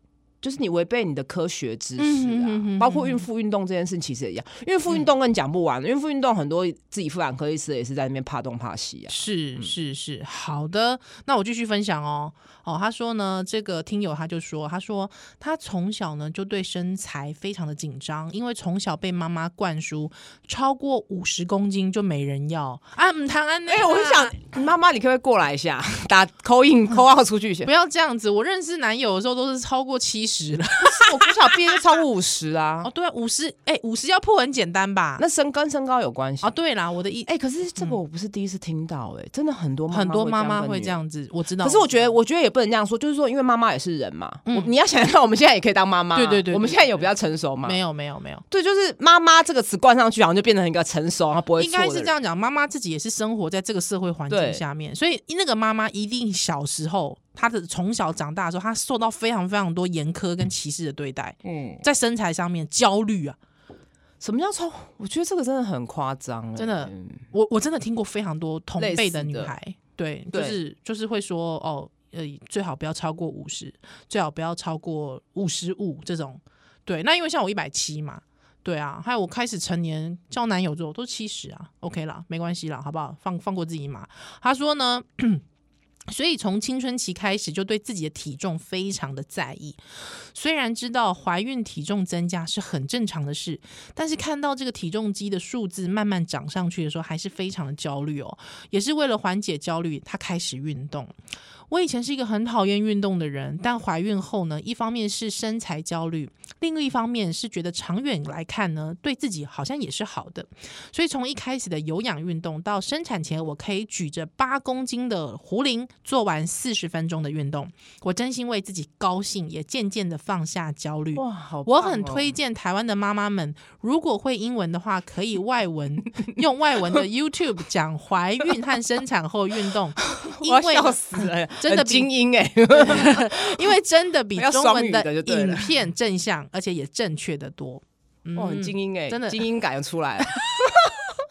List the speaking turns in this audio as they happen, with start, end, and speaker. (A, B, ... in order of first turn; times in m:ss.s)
0:00.4-0:09.7 A
0:02.0-0:03.2 B
0:09.1-0:24.4 B
0:23.7-0:27.7 A
0:27.6-0:31.8 B
0:30.8-0:32.9 A
0:32.8-0:35.2 B
0:35.2-0:36.5 A
0:36.4-0:38.0 B
0:37.2-0:41.0 A
0:39.9-0:42.1 B
0:41.6-0:47.8 A
0:46.1-0:47.1 B
0:47.6-0:48.4 B
0:48.5-0:52.1 A
0:51.6-1:03.4 B
0:54.3-0:54.6 A
1:01.4-1:01.8 A
1:04.2-1:07.2 A
1:06.6-1:25.4 B
1:08.8-1:09.5 A
1:10.3-1:10.6 A
1:26.1-1:41.1 B
1:41.7-2:12.1 B
2:01.1-2:02.3 A
2:10.0-2:13.7 A
2:12.7-2:19.4 B
2:14.3-2:15.7 A
2:18.4-2:20.9 A
2:20.4-2:20.9 B